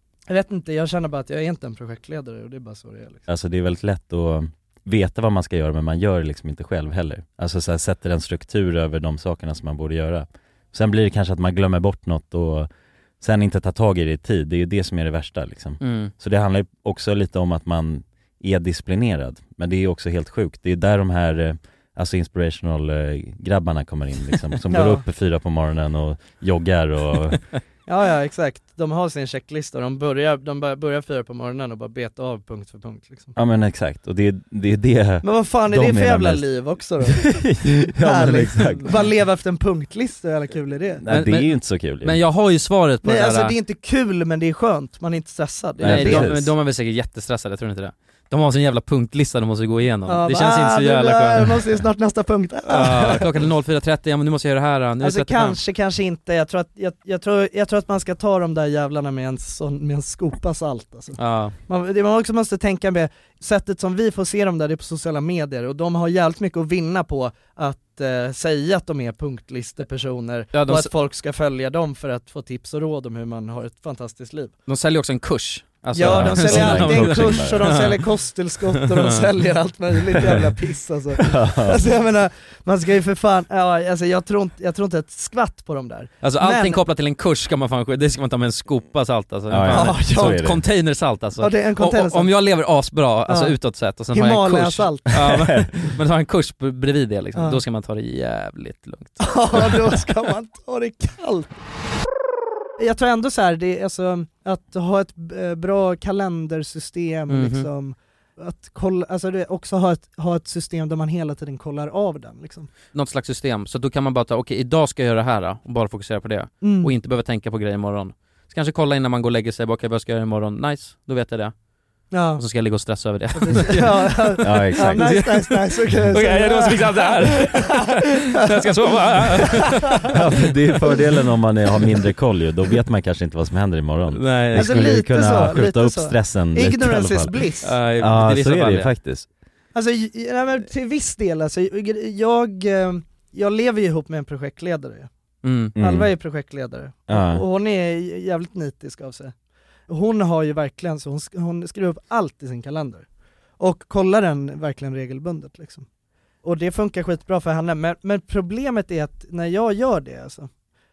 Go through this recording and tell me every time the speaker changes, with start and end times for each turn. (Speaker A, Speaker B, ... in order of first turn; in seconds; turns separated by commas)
Speaker A: 0.3-3.2, Speaker B: 3.3-12.7, Speaker B: 13.2-27.4, Speaker C: 15.8-16.1, Speaker A: 24.7-25.0, Speaker A: 27.9-33.3, Speaker B: 33.4-36.4, Speaker A: 35.2-37.4, Speaker B: 37.1-39.0, Speaker A: 38.0-41.0, Speaker B: 41.0-42.2, Speaker C: 41.1-43.5, Speaker A: 43.0-46.3, Speaker B: 45.8-46.5, Speaker C: 45.8-51.6, Speaker A: 50.0-53.4, Speaker C: 52.7-55.6, Speaker A: 55.0-74.5, Speaker C: 61.2-61.5, Speaker C: 70.5-70.9, Speaker C: 74.7-77.9, Speaker A: 75.9-86.8, Speaker B: 76.0-77.8, Speaker B: 81.2-81.8, Speaker C: 86.2-99.7, Speaker B: 89.5-90.6, Speaker A: 89.7-90.4, Speaker A: 91.4-92.3, Speaker A: 93.3-93.5, Speaker A: 94.1-95.2, Speaker B: 95.3-95.7, Speaker A: 97.3-97.6, Speaker A: 99.2-101.5, Speaker A: 102.8-112.7, Speaker C: 107.3-107.7, Speaker C: 112.9-121.5, Speaker A: 116.6-116.9, Speaker A: 122.1-122.4, Speaker C: 122.3-130.2, Speaker A: 123.3-127.7, Speaker B: 124.4-125.2, Speaker B: 130.1-137.4, Speaker C: 134.1-134.9, Speaker A: 134.5-137.7, Speaker C: 137.6-138.9, Speaker B: 138.0-139.3, Speaker A: 139.7-145.1, Speaker C: 145.4-145.7, Speaker B: 145.7-146.1, Speaker A: 145.8-149.3, Speaker B: 147.1-147.4, Speaker A: 149.9-153.1, Speaker A: 153.6-155.8, Speaker A: 156.4-160.5